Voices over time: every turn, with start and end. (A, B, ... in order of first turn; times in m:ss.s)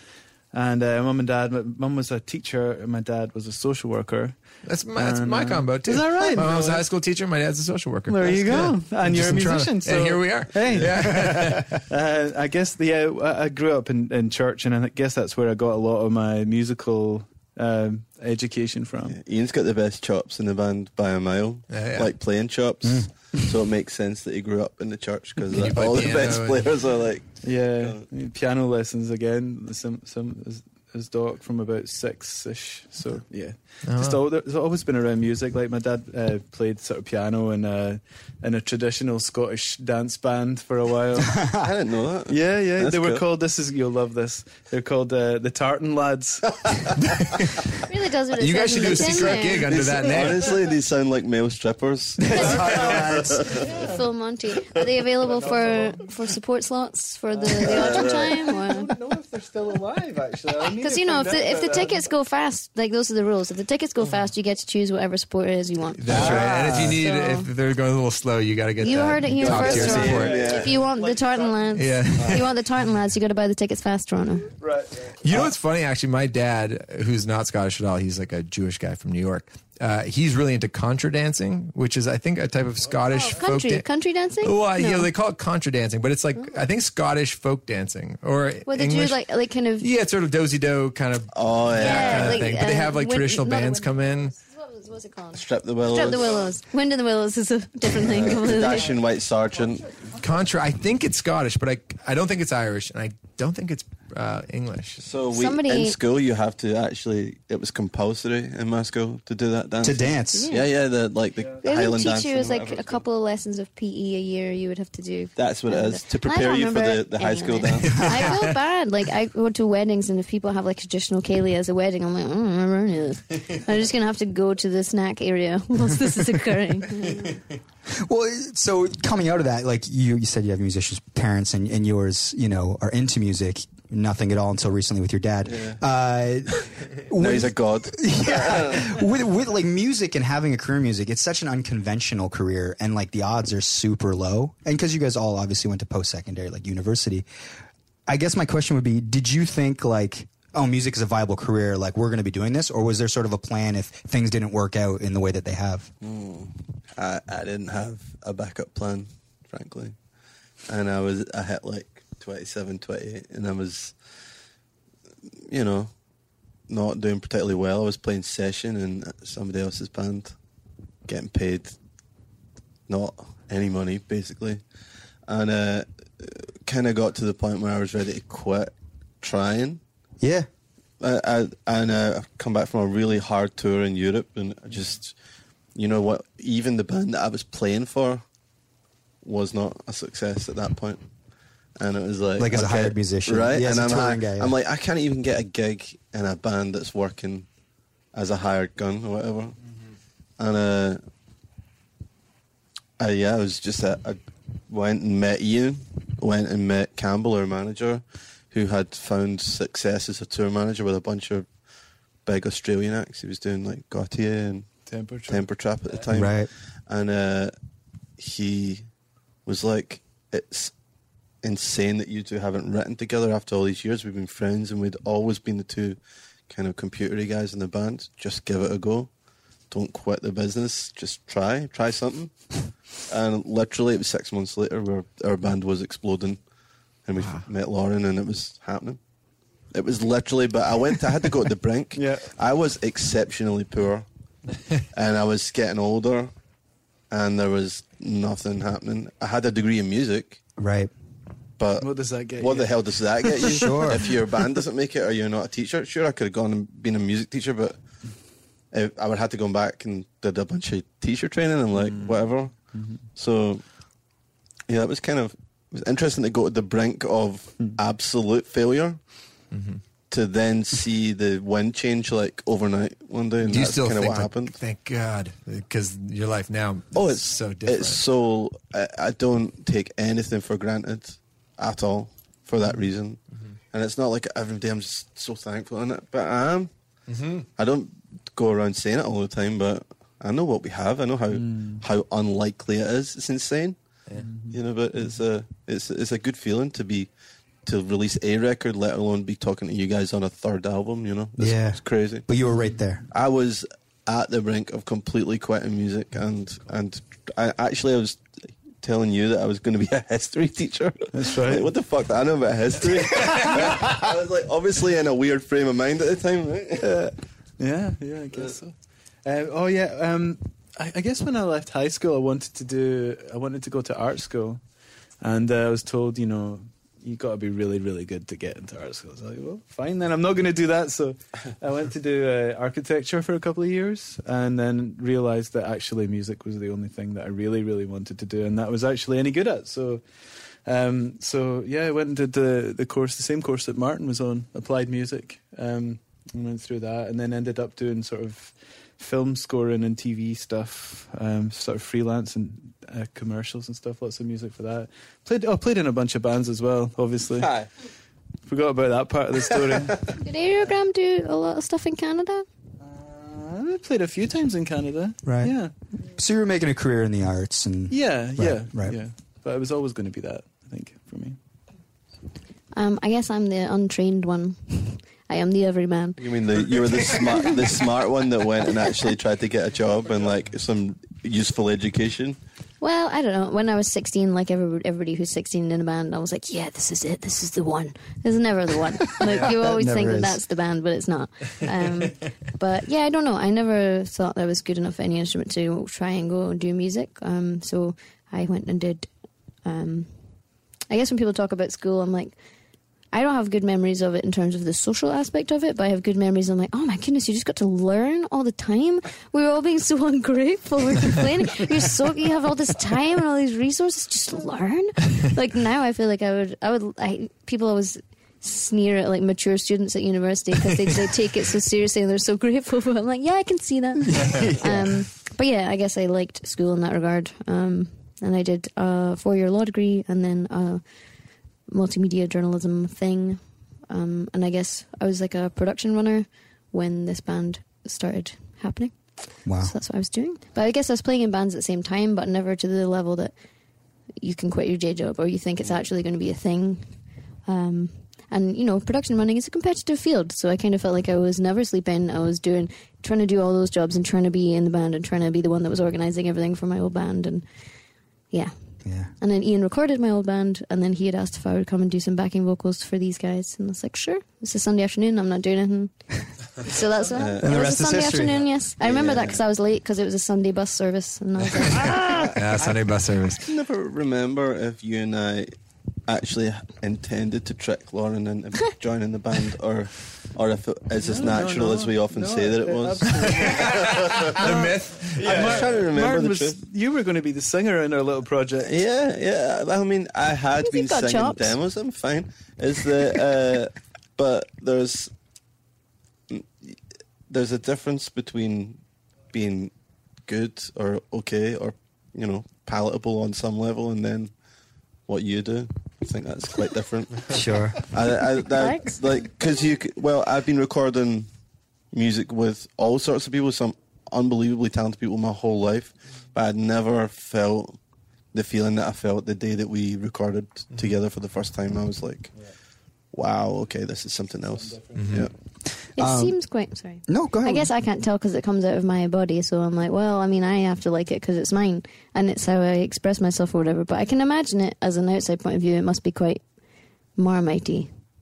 0:00.5-0:04.4 A
0:04.6-0:11.7 B
0:04.9-0:06.8 A
0:08.1-0:19.2 A
0:19.1-0:28.0 C
0:21.7-0:22.1 B
0:22.8-0:23.1 D
0:25.5-0:26.7 B
0:27.4-0:41.4 A
0:33.8-0:34.2 B
0:41.4-0:41.7 D
0:41.5-0:43.2 C
0:42.3-0:46.5 A
0:47.0-0:47.6 B
0:47.8-0:49.8 E
0:48.4-0:50.5 B
0:49.6-0:53.7 C
0:52.3-0:52.7 E
0:52.4-0:54.0 A
0:52.9-0:53.3 D
0:53.6-0:59.0 E
0:55.2-0:56.1 A
0:57.3-1:02.1 A
0:57.6-0:58.5 C
1:00.7-1:07.5 E
1:06.0-1:10.4 B
1:06.1-1:07.0 D
1:08.8-1:14.5 E
1:09.3-1:10.9 C
1:09.5-1:12.4 A
1:11.7-1:12.5 B
1:14.5-1:15.3 A
1:15.2-1:23.8 B
1:23.0-1:25.1 E
1:24.4-1:29.2 B
1:28.7-1:29.9 E
1:29.8-1:34.3 B
1:31.3-1:32.4 C
1:31.8-1:39.0 E
1:35.3-1:36.5 C
1:38.0-1:39.9 C
1:40.2-1:45.0 B
1:45.0-1:53.0 C
1:45.3-1:46.0 E
1:49.8-1:50.5 D
1:50.3-1:50.7 E
1:51.6-2:07.4 E
1:55.4-1:58.3 C
2:07.9-2:27.2 D
2:15.4-2:15.8 C
2:17.2-2:18.9 C
2:28.1-2:35.9 D
2:36.0-2:40.0 C
2:40.7-2:43.9 C
2:45.5-2:45.9 C
2:46.7-2:50.3 C
2:51.0-2:51.8 C
2:52.9-2:54.6 C
2:55.3-2:59.8 C
3:00.2-3:00.5 D
3:01.0-3:05.1 C
3:05.7-3:08.2 C
3:09.2-3:11.0 C
3:11.8-3:17.5 C
3:12.4-3:14.5 D
3:18.1-3:19.6 C
3:20.4-3:21.0 C
3:23.0-3:31.5 C
3:32.2-3:34.7 C
3:34.9-3:36.0 A
3:35.3-3:37.5 C
3:36.1-3:36.5 D
3:38.2-3:38.8 C
3:39.4-3:40.7 C
3:41.4-3:46.0 C
3:46.5-3:49.1 C
3:49.7-3:52.5 C
3:53.1-3:56.4 C
3:57.0-3:59.0 C
3:59.7-4:04.0 C
4:02.0-4:02.3 A
4:04.9-4:06.3 C
4:07.1-4:10.4 C
4:10.6-4:10.9 D
4:11.6-4:17.8 C
4:11.8-4:13.9 A
4:13.5-4:14.1 D
4:18.7-4:22.5 C
4:21.8-4:23.0 A
4:23.1-4:23.6 C
4:24.7-4:29.0 C
4:29.5-4:29.8 B
4:30.1-4:34.6 C
4:33.5-4:38.0 B
4:36.9-4:43.2 C
4:43.7-4:46.7 C
4:47.1-4:47.5 B
4:47.6-4:53.8 C
4:51.3-4:51.8 A
4:54.2-4:54.6 A
4:54.5-4:57.1 C
4:57.6-5:02.3 C
5:01.4-5:03.0 D
5:02.5-5:02.7 A
5:03.1-5:08.2 C
5:08.8-5:16.9 C
5:11.1-5:11.7 A
5:16.8-5:18.7 A
5:19.2-5:24.6 A
5:25.2-5:40.0 A
5:40.6-5:57.6 A
5:57.4-5:57.7 C
5:58.5-6:00.1 A
5:59.6-5:59.9 C
6:00.2-6:02.4 E
6:02.8-6:05.7 A
6:05.2-6:05.6 D
6:06.1-6:09.0 D
6:07.9-6:11.4 A
6:12.7-6:16.4 E
6:16.2-6:22.4 C
6:17.1-6:17.6 E
6:22.8-6:39.1 E
6:29.2-6:30.4 D
6:39.6-6:40.1 E
6:40.9-6:42.4 E
6:43.1-7:10.8 E
7:04.1-7:04.9 D
7:11.7-7:23.3 E
7:19.4-7:19.7 D
7:24.2-7:37.4 E
7:38.8-7:39.1 D
7:39.2-7:45.9 E
7:46.6-7:52.2 E
7:47.1-7:47.6 C
7:47.4-7:48.4 D
7:48.8-7:49.4 C
7:51.7-7:52.7 A
7:52.3-7:53.4 B
7:53.4-7:55.5 C
7:56.1-8:04.6 C
8:01.0-8:03.7 A
8:03.3-8:05.7 B
8:04.3-8:08.7 A
8:05.2-8:06.6 C
8:08.6-8:15.1 C
8:10.6-8:11.6 E
8:16.3-8:16.8 C
8:17.3-8:18.8 C
8:19.3-8:19.7 C
8:20.3-8:24.3 C
8:25.1-8:31.3 C
8:27.3-8:27.8 D
8:28.5-8:29.0 E
8:31.9-8:37.8 C
8:38.3-8:42.3 C
8:43.1-8:45.3 C
8:44.5-8:45.3 A
8:44.9-8:45.3 B
8:46.0-8:46.4 D
8:46.0-8:56.4 E
8:47.1-8:47.7 D
8:57.2-8:57.9 E